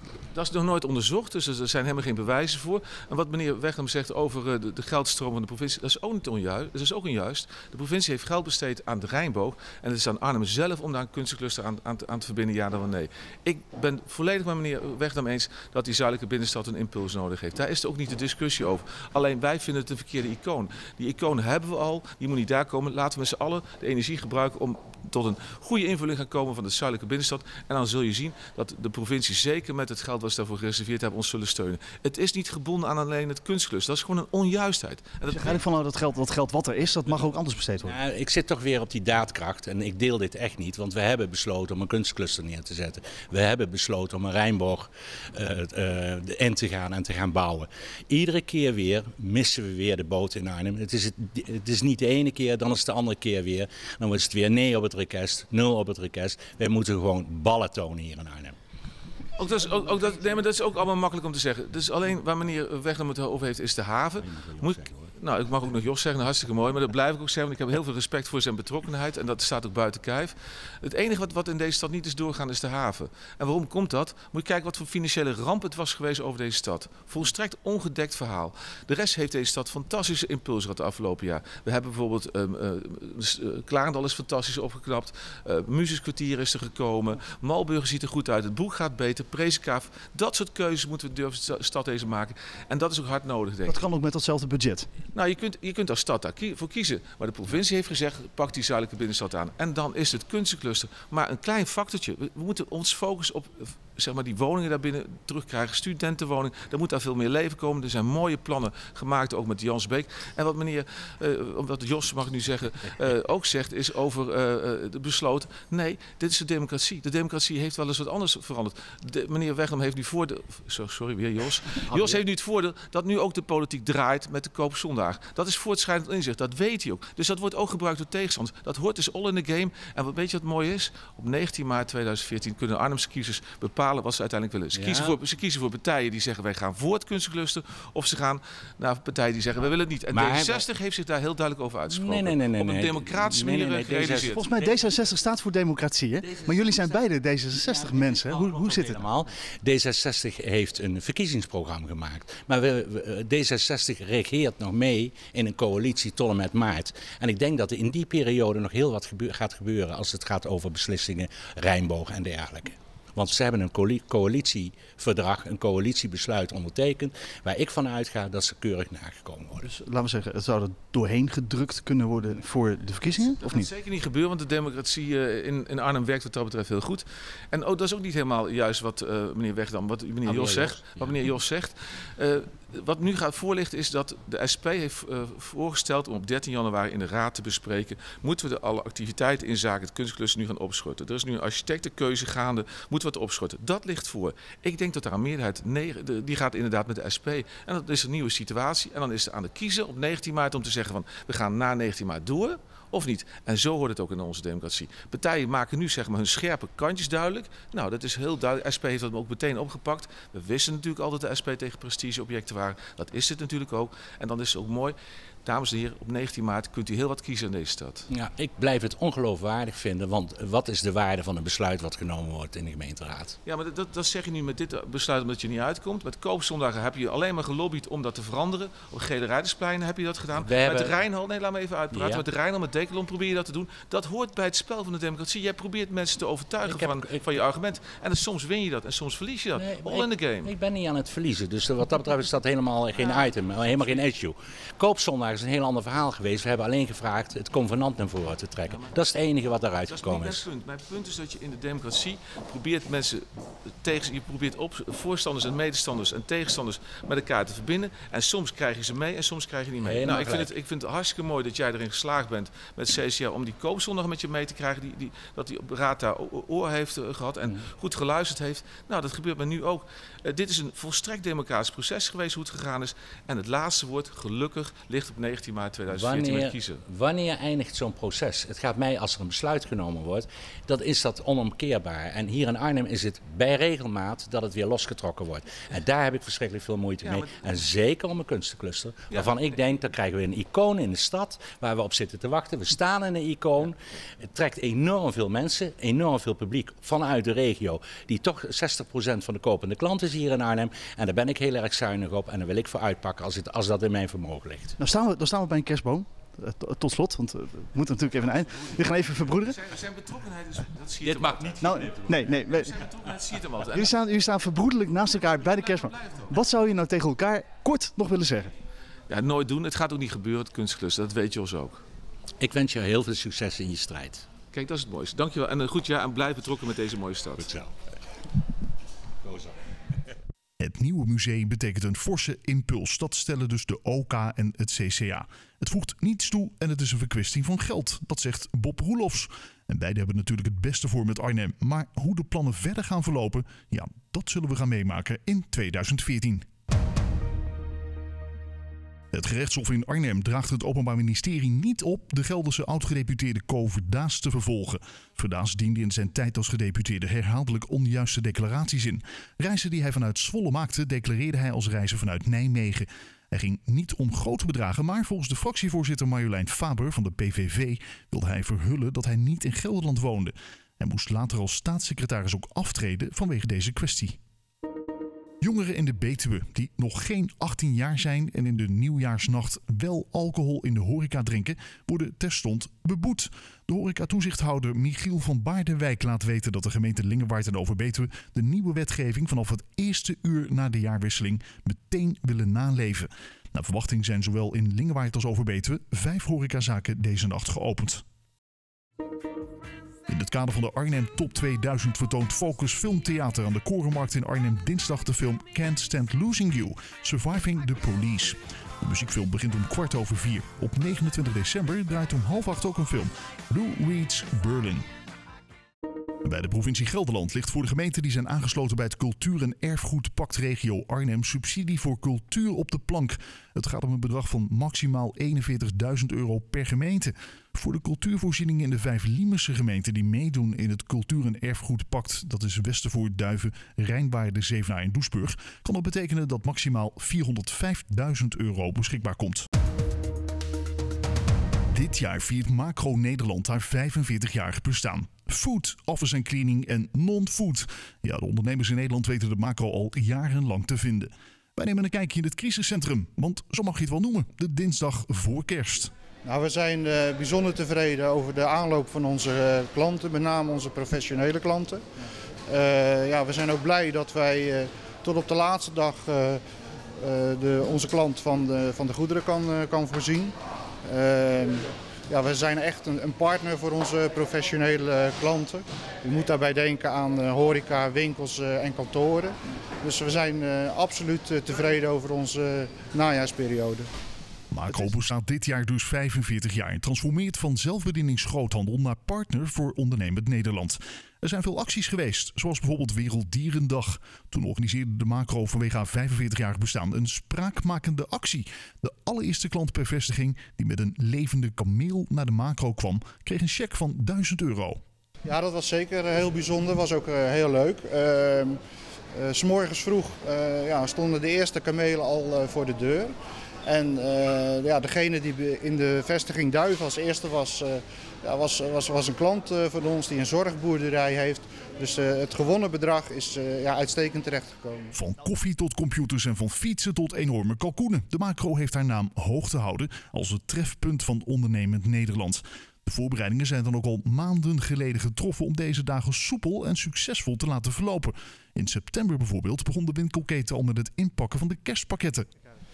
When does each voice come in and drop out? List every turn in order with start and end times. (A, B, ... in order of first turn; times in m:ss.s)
0:00.3-0:35.6 A
0:35.3-0:38.0 B
0:37.8-0:58.6 C
0:59.4-1:33.8 A
1:04.2-1:05.1 C
1:33.6-1:34.9 B
1:35.1-2:24.9 A
2:01.8-2:02.2 C
2:14.7-2:15.2 C
2:20.1-2:20.6 C
2:21.9-2:24.3 C
2:24.3-2:29.0 B
2:26.2-2:49.6 C
2:49.6-2:53.7 B
2:53.1-3:38.1 A
3:00.2-3:01.1 C
3:38.1-3:43.4 C
3:43.4-4:00.5 A
3:50.4-3:51.0 C
3:51.9-3:52.2 C
3:56.6-3:57.2 C
3:59.6-4:10.5 C
4:02.9-4:04.0 A
4:09.9-4:13.2 A
4:13.8-4:36.8 A
4:19.8-4:20.5 C
4:35.9-5:04.8 C
4:47.0-4:47.4 A
4:49.1-4:49.3 A
5:04.8-5:09.6 B
5:09.4-5:14.0 A
5:11.0-5:12.1 C
5:11.6-5:12.8 B
5:13.7-5:18.5 B
5:15.1-5:16.3 A
5:19.1-5:21.8 A
5:22.4-5:24.2 C
5:24.5-5:27.5 A
5:30.6-5:46.4 D
5:49.1-6:14.2 D
6:15.4-6:38.0 D
6:40.1-6:54.8 D
6:56.2-7:19.4 D
7:21.7-7:35.9 D
7:36.2-7:41.8 E
7:42.5-7:46.4 E
7:47.0-7:50.3 E
7:50.8-8:03.9 E
8:04.5-8:24.8 D
8:25.2-8:28.6 E
8:29.1-8:33.1 E
8:33.6-8:44.9 E
8:44.9-9:02.2 D